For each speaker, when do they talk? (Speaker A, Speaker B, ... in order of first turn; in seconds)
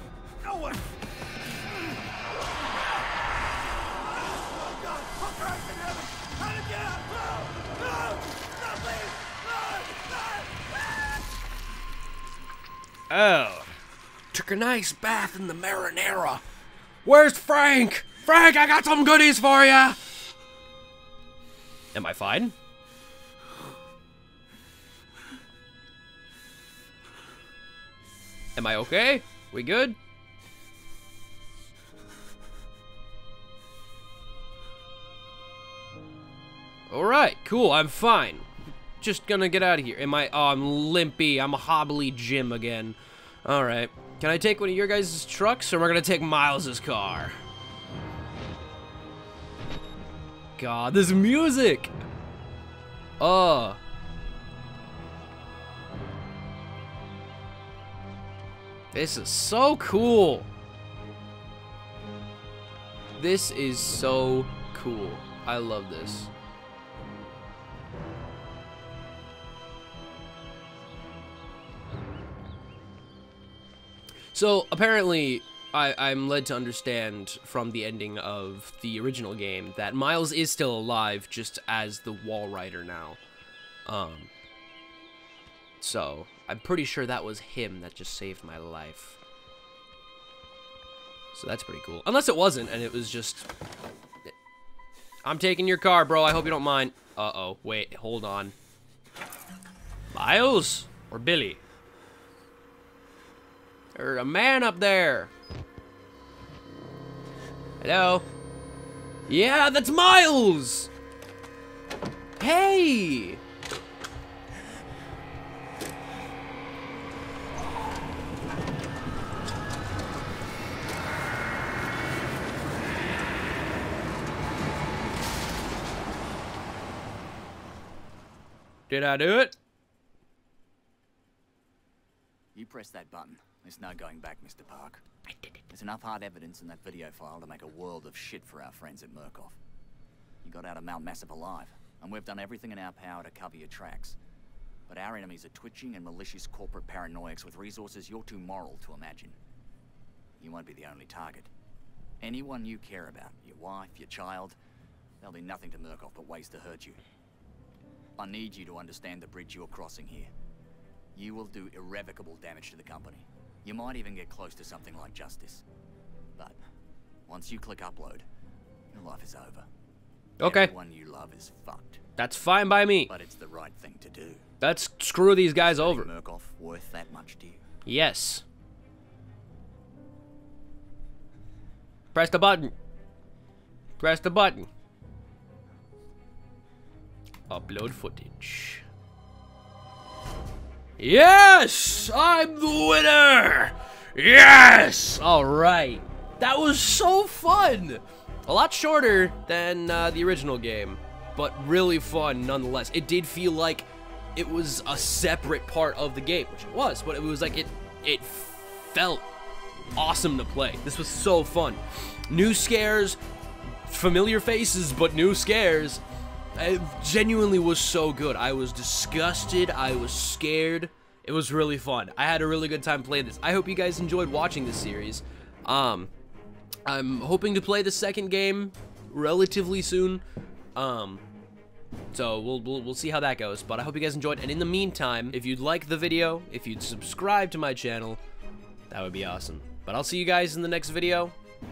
Speaker A: 0.4-0.9, 4.0-10.6
Speaker B: 13.1-13.7, 14.3-16.4, 17.0-20.0, 21.9-22.5, 28.6-30.0, 36.9-38.5, 39.0-47.4, 50.6-51.9, 53.2-53.8, 58.9-60.5, 63.2-66.3, 74.3-83.2, 83.9-84.3, 85.8-89.2, 91.3-93.5, 95.2-98.5, 100.1-101.6, 103.9-105.3, 107.8-108.2, 109.3-110.9, 112.4-113.4, 128.9-129.6, 170.4-170.7, 172.2-173.1, 174.6-176.1, 177.8-178.4, 182.1-182.7, 184.0-184.7, 187.5-188.8, 191.0-209.3, 209.9-213.2, 213.8-216.0, 216.6-226.1, 226.8-230.2, 230.8-231.2, 232.1-238.2, 238.9-241.3
Speaker C: 132.5-135.0, 135.7-139.6, 140.4-144.2, 144.9-149.4, 150.4-151.5, 152.2-154.6, 155.2-157.0, 158.2-160.3, 161.1-165.6, 167.3-168.3, 168.9-169.7, 170.4-172.0, 173.1-174.4, 175.6-177.6